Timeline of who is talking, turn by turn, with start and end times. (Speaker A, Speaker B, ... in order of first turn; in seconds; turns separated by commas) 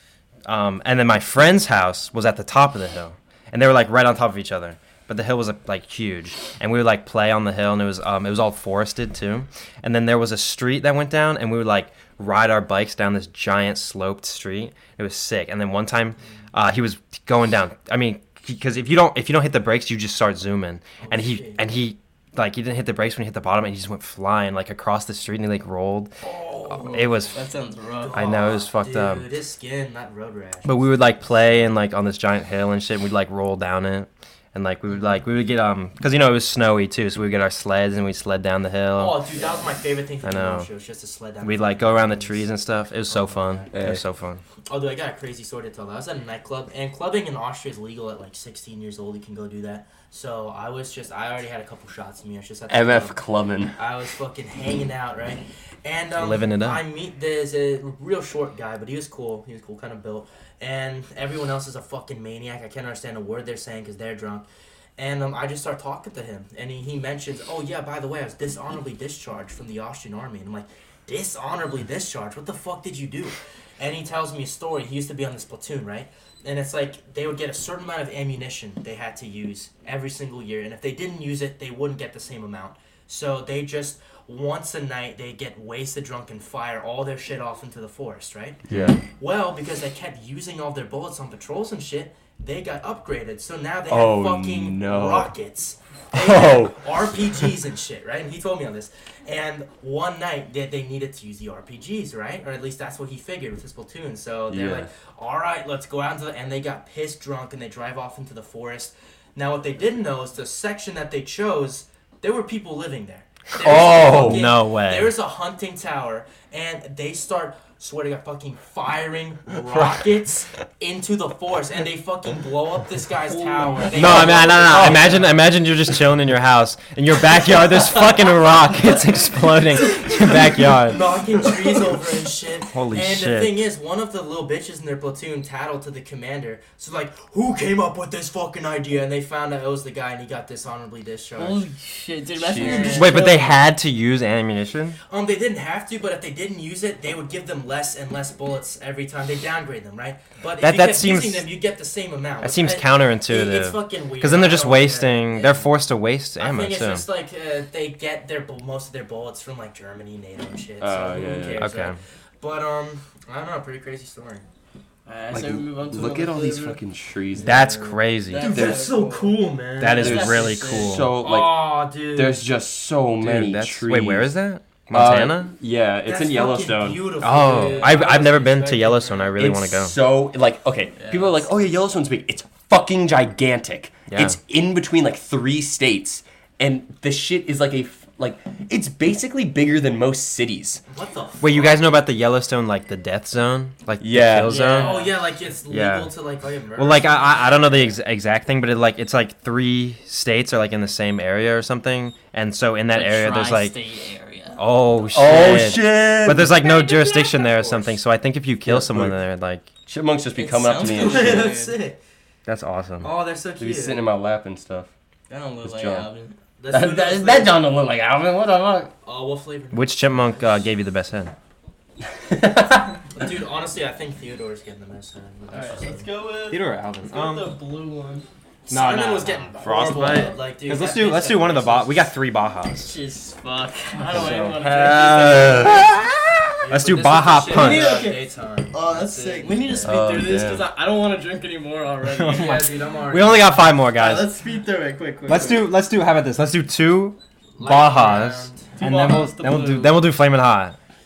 Speaker A: 0.5-26.1, Speaker B: 21.0-21.6, Speaker B: 26.2-27.3, Speaker A: 26.7-27.4, Speaker C: 27.3-28.2, Speaker B: 28.0-31.5, Speaker A: 28.1-29.3, Speaker A: 30.6-39.2, Speaker B: 39.0-42.4, Speaker A: 40.2-40.7, Speaker A: 41.4-44.4, Speaker B: 43.1-43.7, Speaker D: 43.7-44.0, Speaker B: 44.7-53.2, Speaker D: 52.7-53.8, Speaker B: 53.8-64.5, Speaker A: 56.1-56.8, Speaker B: 65.0-125.4, Speaker D: 88.7-89.0, Speaker D: 93.9-95.3, Speaker D: 96.1-96.8, Speaker D: 104.5-104.9, Speaker D: 113.6-114.5, Speaker A: 113.7-115.1, Speaker C: 123.2-124.3, Speaker D: 123.9-125.1, Speaker A: 123.9-131.0, Speaker B: 127.6-128.2, Speaker B: 129.9-141.7, Speaker A: 132.7-133.6, Speaker C: 141.4-143.6, Speaker D: 142.4-143.1, Speaker B: 142.6-143.2, Speaker A: 142.9-145.0, Speaker B: 145.1-155.7, Speaker A: 150.6-151.5, Speaker A: 152.4-157.1, Speaker B: 156.4-164.5, Speaker D: 160.8-161.7, Speaker A: 161.6-162.0, Speaker C: 165.1-166.8, Speaker D: 165.3-167.7, Speaker A: 167.4-168.6, Speaker C: 168.3-169.3, Speaker B: 168.3-170.2, Speaker D: 168.5-168.9, Speaker A: 169.8-171.1, Speaker C: 170.0-171.1, Speaker D: 170.0-174.3, Speaker B: 171.2-172.4, Speaker A: 173.2-175.5, Speaker D: 174.9-177.1, Speaker B: 176.1-179.3, Speaker A: 177.2-180.0, Speaker C: 177.5-177.9, Speaker D: 179.4-190.8, Speaker A: 184.1-184.4, Speaker B: 190.9-191.9, Speaker A: 191.4-195.0, Speaker D: 194.0-194.6, Speaker C: 194.4-195.2, Speaker B: 194.7-197.9, Speaker A: 195.7-196.1, Speaker A: 196.8-203.8, Speaker C: 202.9-204.6, Speaker A: 204.6-209.7, Speaker D: 205.1-206.5, Speaker B: 206.6-207.9, Speaker D: 208.7-209.2, Speaker D: 209.9-211.5, Speaker C: 210.3-211.8, Speaker B: 210.8-212.0, Speaker A: 212.5-213.1, Speaker B: 213.0-214.0, Speaker D: 213.6-214.9, Speaker C: 215.3-216.3, Speaker D: 215.6-216.1, Speaker B: 216.6-217.7, Speaker D: 216.7-218.9, Speaker B: 219.0-220.6, Speaker A: 219.7-221.3, Speaker D: 222.2-223.0, Speaker B: 223.1-226.1, Speaker C: 225.5-228.3, Speaker A: 226.5-227.5, Speaker B: 228.7-232.0, Speaker A: 228.7-229.5, Speaker D: 229.6-230.4, Speaker A: 230.6-232.9, Speaker C: 232.8-235.9, Speaker D: 234.1-236.2, Speaker A: 234.1-234.5, Speaker B: 236.6-239.9, Speaker A: 236.7-238.1, Speaker C: 237.5-242.6, Speaker D: 239.8-240.7, Speaker A: 242.2-244.3, Speaker B: 242.3-243.6, Speaker C: 243.9-245.7, Speaker A: 245.3-250.8, Speaker B: 247.6-248.7, Speaker C: 248.8-250.0